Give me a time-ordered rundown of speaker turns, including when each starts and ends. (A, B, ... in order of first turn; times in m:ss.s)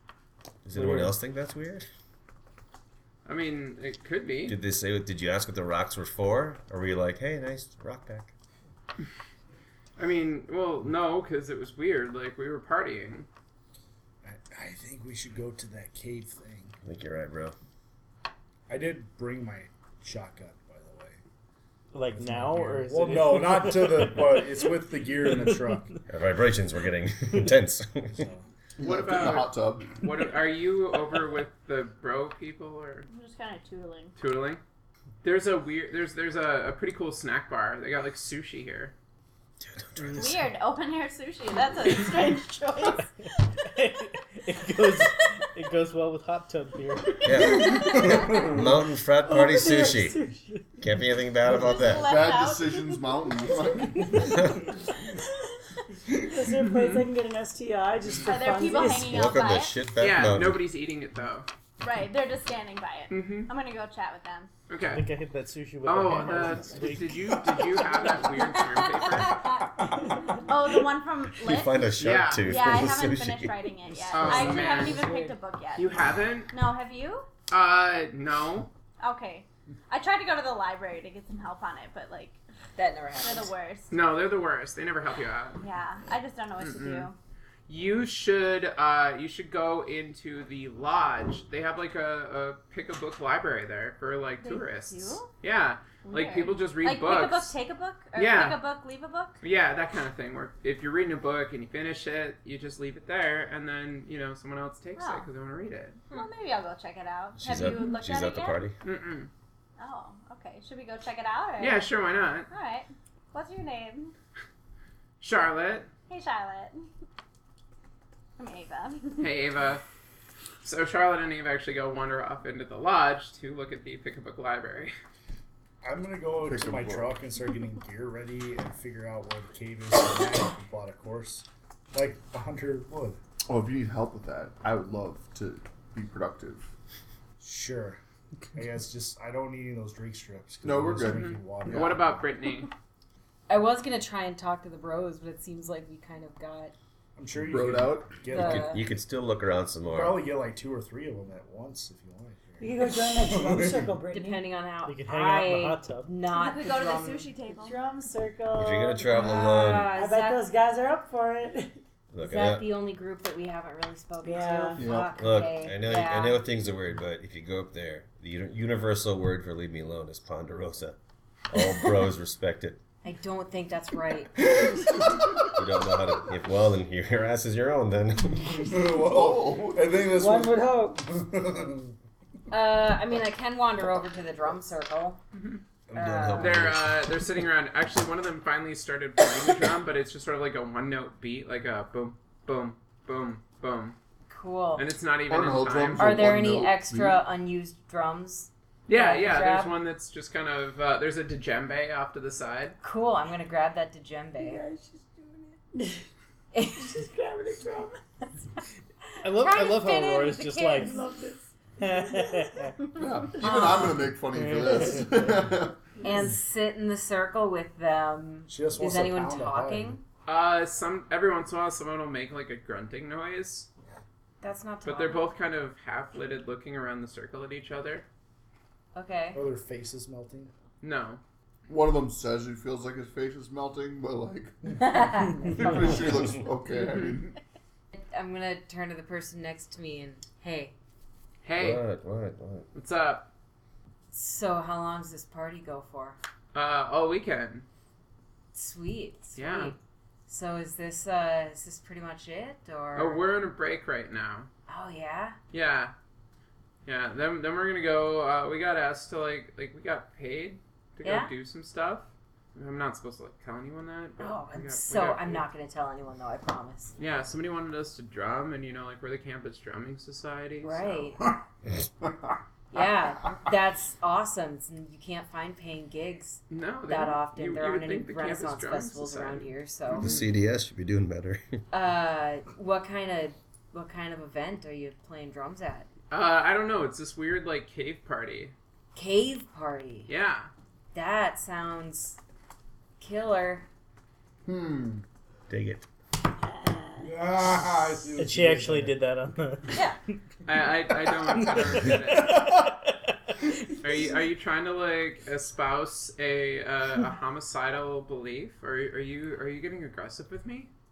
0:00.6-0:01.8 A
0:00.8-0:01.2 B
0:03.2-0:04.6 C
0:04.5-0:08.3 A
0:10.0-0:13.3 C
0:14.2-0:16.8 D
0:16.8-0:17.6 A
0:18.7-0:21.2 D
0:21.9-0:24.6 B
0:22.2-0:26.0 D
0:25.3-0:25.8 B
0:26.1-0:28.3 A
0:28.1-0:28.5 D
0:28.8-0:30.0 E
0:28.8-0:33.1 C
0:33.1-0:34.1 F
0:34.2-0:34.6 C
0:35.2-0:38.9 C
0:39.6-0:40.4 A
0:40.0-0:40.3 B
0:40.1-0:43.1 F
0:43.6-0:47.3 B
0:47.2-0:50.2 A
0:48.0-0:48.4 D
0:49.2-0:50.7 G
0:50.8-0:52.2 A
0:51.5-0:53.0 F
0:52.0-0:54.2 E
0:54.2-0:54.6 A
0:56.2-0:59.2 G
0:56.8-0:57.0 C
0:58.2-0:59.8 F
0:59.0-1:00.6 A
1:00.0-1:01.5 C
1:01.8-1:04.5 F
1:03.1-1:03.5 C
1:04.7-1:05.0 C
1:04.9-1:07.6 B
1:05.8-1:09.4 C
1:08.4-1:09.7 F
1:10.4-1:11.9 F
1:11.4-1:13.7 A
1:12.0-1:12.5 C
1:12.4-1:15.9 F
1:14.1-1:15.1 C
1:15.8-1:16.5 C
1:16.5-1:17.3 F
1:17.5-1:18.7 C
1:19.0-1:22.4 F
1:22.8-1:23.5 H
1:23.2-1:23.9 F
1:23.9-1:25.6 C
1:25.6-1:27.2 F
1:26.6-1:27.1 C
1:27.7-1:37.5 C
1:34.4-1:35.3 F
1:36.0-1:39.4 F
1:38.2-1:38.6 C
1:39.4-1:46.0 C
1:45.0-1:45.3 F
1:46.1-1:48.6 F
1:47.4-1:48.8 A
1:48.8-1:49.3 C
1:49.8-1:51.8 F
1:51.6-1:52.5 C
1:52.5-1:54.1 F
1:55.2-1:55.9 C
1:56.1-1:56.9 F
1:58.4-1:59.3 F
1:59.2-1:59.8 C
2:00.6-2:05.0 C
2:05.8-2:13.2 D
2:06.4-2:07.2 E
2:13.5-2:16.7 E
2:17.4-2:18.0 D
2:18.6-2:22.2 D
2:20.6-2:22.0 E
2:21.0-2:22.7 C
2:23.5-2:26.7 H
2:27.2-2:28.8 D
2:27.4-2:28.3 E
2:28.3-2:28.9 H
2:28.3-2:30.2 A
2:29.9-2:33.9 D
2:32.6-2:34.5 G
2:34.1-2:37.3 H
2:34.8-2:36.1 B
2:36.3-2:37.8 F
2:37.6-2:41.8 G
2:38.5-2:40.0 A
2:39.1-2:40.4 H
2:42.1-2:42.7 A
2:42.2-2:46.4 H
2:44.2-2:44.8 G
2:44.8-2:45.2 E
2:45.2-2:51.0 A
2:51.5-2:52.8 A
2:53.0-2:54.6 H
2:55.5-2:58.7 A
2:58.4-3:00.5 D
2:58.9-3:00.0 E
3:00.1-3:01.0 G
3:01.1-3:01.9 D
3:02.5-3:05.2 H
3:05.4-3:05.6 C
3:05.9-3:07.0 A
3:05.9-3:06.8 H
3:06.4-3:14.0 C
3:14.3-3:14.9 H
3:14.8-3:16.2 C
3:15.3-3:17.2 E
3:16.0-3:19.8 H
3:18.9-3:22.8 C
3:22.8-3:24.6 H
3:24.4-3:26.0 G
3:26.6-3:26.9 H
3:26.8-3:28.0 G
3:29.2-3:31.0 B
3:29.4-3:30.9 H
3:30.8-3:32.2 G
3:31.8-3:32.8 B
3:33.0-3:35.8 E
3:33.4-3:34.1 H
3:34.4-3:35.0 B
3:36.0-3:40.0 H
3:38.5-3:40.0 D
3:40.2-3:43.7 C
3:44.4-3:45.3 H
3:44.8-3:48.1 C
3:49.0-3:49.4 H
3:49.3-3:50.5 D
3:50.8-3:51.2 C
3:51.7-3:54.6 E
3:54.9-3:56.0 H
3:55.4-3:57.3 E
3:56.8-3:57.2 C
3:57.9-4:00.7 H
4:01.4-4:01.8 C
4:01.6-4:02.7 A
4:02.7-4:03.3 C
4:04.1-4:06.2 H
4:06.5-4:07.7 C
4:08.5-4:13.2 H
4:09.4-4:09.7 C
4:13.0-4:14.5 C
4:14.7-4:15.4 H
4:15.5-4:15.9 C
4:16.8-4:25.5 C
4:21.0-4:21.3 H
4:24.2-4:27.0 H
4:27.0-4:31.2 C
4:30.6-4:31.3 H
4:32.7-4:40.1 H
4:36.5-4:39.5 C
4:40.0-4:41.6 A
4:41.7-4:45.9 H
4:46.1-4:48.6 C
4:49.0-4:50.1 H
4:50.1-4:50.5 C
4:50.9-4:52.2 H
4:53.0-4:53.7 H
4:54.4-4:55.0 E
4:55.5-4:55.8 A
4:56.4-4:57.1 G
4:57.0-4:59.0 D
4:58.2-4:59.8 B
5:00.4-5:02.4 C
5:01.7-5:03.8 B
5:03.8-5:10.7 C